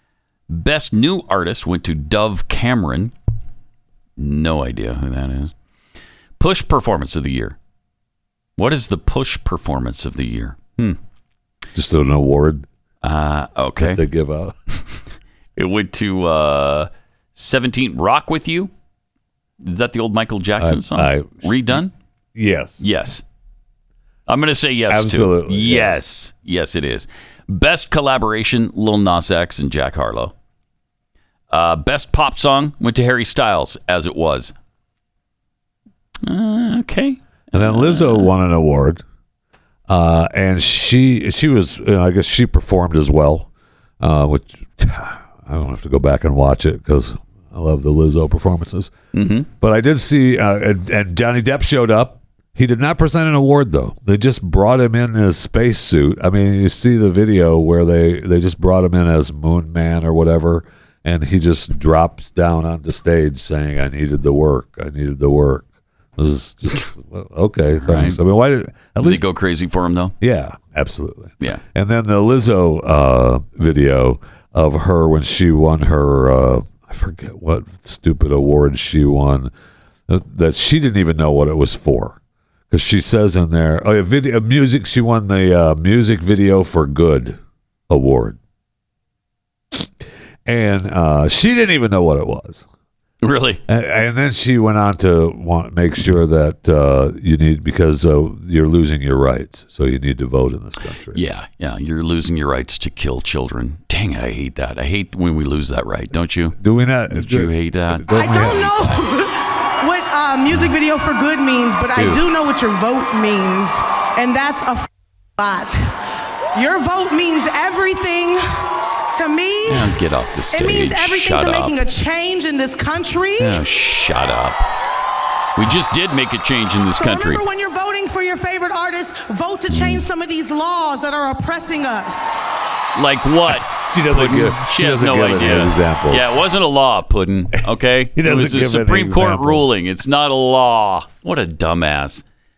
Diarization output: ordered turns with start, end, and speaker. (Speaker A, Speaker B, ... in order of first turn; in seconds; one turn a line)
Speaker A: 0.5-3.1
Speaker A: 4.2-5.5
Speaker A: 6.4-7.6
Speaker A: 8.6-11.0
Speaker B: 11.7-12.7
Speaker A: 13.0-14.0
Speaker B: 13.8-14.5
Speaker A: 15.6-18.7
Speaker A: 19.6-21.9
Speaker B: 20.6-21.8
Speaker B: 22.3-22.8
Speaker A: 22.8-23.2
Speaker A: 24.3-30.3
Speaker B: 24.9-26.0
Speaker A: 31.5-34.5
Speaker A: 36.2-38.3
Speaker B: 37.5-39.0
Speaker B: 39.9-48.9
Speaker A: 49.1-49.5
Speaker B: 49.6-69.2
Speaker A: 67.8-68.2
Speaker A: 69.0-70.1
Speaker B: 70.2-79.5
Speaker B: 80.1-82.2
Speaker B: 82.7-88.4
Speaker B: 90.4-92.6
Speaker A: 93.2-93.6
Speaker B: 93.7-101.2
Speaker A: 101.1-106.6
Speaker B: 106.6-108.8
Speaker A: 107.1-109.0
Speaker C: 108.1-116.0
Speaker A: 111.9-112.2
Speaker C: 116.5-119.9
Speaker A: 119.7-121.8
Speaker C: 120.5-123.6
Speaker A: 123.4-124.6
Speaker A: 125.5-127.4
Speaker C: 127.0-132.4
Speaker A: 132.9-142.2
Speaker B: 133.7-136.3
Speaker B: 138.1-139.7